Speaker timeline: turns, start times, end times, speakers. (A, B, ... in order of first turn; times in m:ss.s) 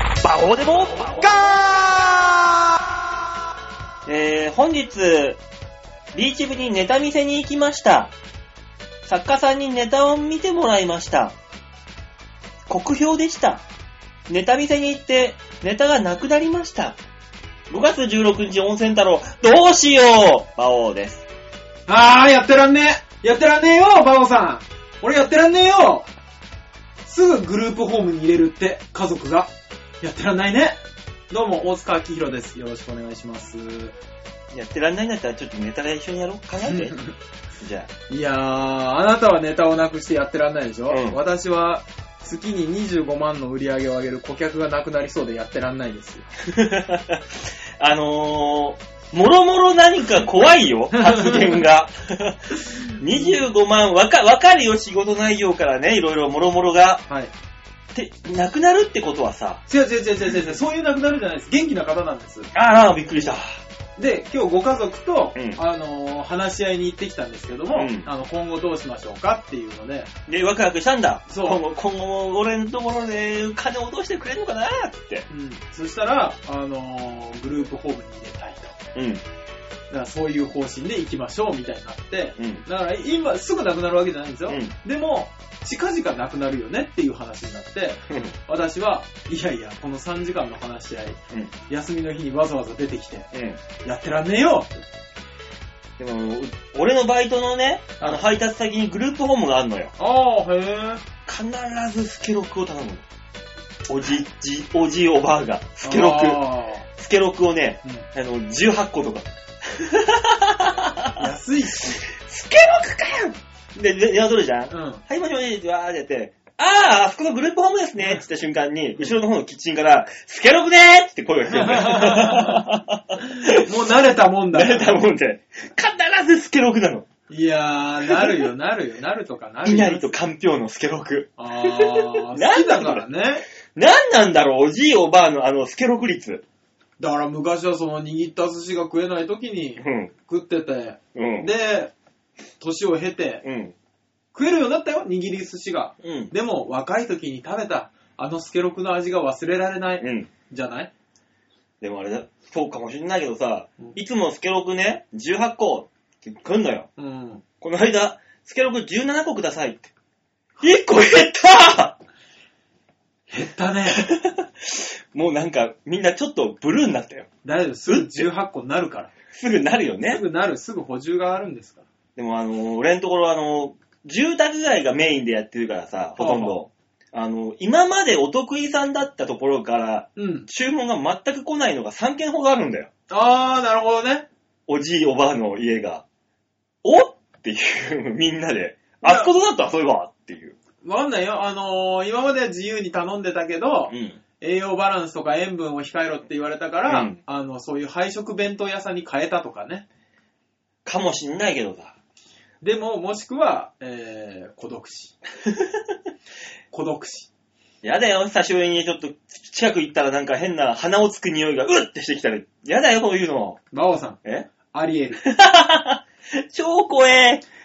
0:00.1-0:01.4 A
0:01.2-0:02.3 B
0:04.0-0:05.4 A
0:06.1-0:08.1 A
0:09.0-0:11.3 A
0:12.7-0:13.6 A
0:14.3-0:17.0 A
0:17.7-0:21.2 A
0:21.9-0:26.1 B
0:27.0-0:30.8 B
0:31.3-0:33.9 B
0:34.5-0:37.0 A
0:36.6-0:37.1 B
0:37.6-0:37.9 A
0:38.1-0:46.2 B
0:40.9-0:41.2 A
0:46.5-0:47.2 A
0:47.8-0:57.0 A
0:51.0-0:51.4 B
0:53.1-0:53.4 B
0:57.1-0:57.3 B
0:57.9-0:59.6 A
0:59.7-1:02.5 B
1:02.5-1:03.6 A
1:04.0-1:10.1 B
1:05.3-1:05.6 A
1:07.7-1:08.1 A
1:10.3-1:15.2 A
1:11.3-1:11.6 B
1:15.3-1:18.7 B
1:18.9-1:19.2 A
1:19.9-1:31.2 B
1:22.4-1:22.6 A
1:24.5-1:24.7 A
1:28.1-1:28.3 A
1:31.7-1:33.3 B
1:33.3-1:33.6 A
1:33.8-1:34.7 B
1:36.0-1:39.9 A
1:40.0-1:41.0 B
1:41.2-1:43.0 A
1:43.9-1:46.4 A
1:45.8-1:46.8 B
1:47.0-1:51.2 A
1:51.2-1:52.0 B
1:52.1-2:03.6 A
1:54.7-1:55.0 B
1:58.0-1:58.2 B
2:01.5-2:02.6 B
2:03.3-2:05.0 B
2:04.5-2:07.0 A
2:07.3-2:10.1 B
2:08.1-2:08.5 A
2:09.6-2:13.0 A
2:11.4-2:13.4 B
2:13.7-2:16.4 A
2:17.0-2:21.9 B
2:19.8-2:20.1 A
2:21.1-2:21.5 A
2:22.6-2:23.4 B
2:23.4-2:23.7 A
2:24.3-2:30.9 B
2:26.0-2:26.3 A
2:30.0-2:30.3 A
2:31.8-2:36.9 A
2:37.0-2:37.4 B
2:37.6-2:39.9 A
2:40.6-2:42.0 A
2:43.3-2:44.1 B
2:44.0-2:47.3 A
2:47.4-2:49.1 B
2:47.9-2:48.2 A
2:49.3-2:50.2 A
2:50.1-2:51.8 B
2:52.2-3:02.9 A
2:56.2-2:56.6 B
3:00.2-3:00.5 B
3:03.1-3:04.3 B
3:04.7-3:06.0 A
3:06.8-3:10.6 A
3:09.0-3:09.3 B
3:10.8-3:19.8 B
3:13.9-3:14.2 A
3:16.9-3:17.2 A
3:20.8-3:21.9 A
3:22.6-3:25.1 B
3:26.7-3:27.3 B
3:27.8-3:33.6 A
3:33.7-3:35.2 B
3:34.2-3:34.5 A
3:35.2-3:37.4 A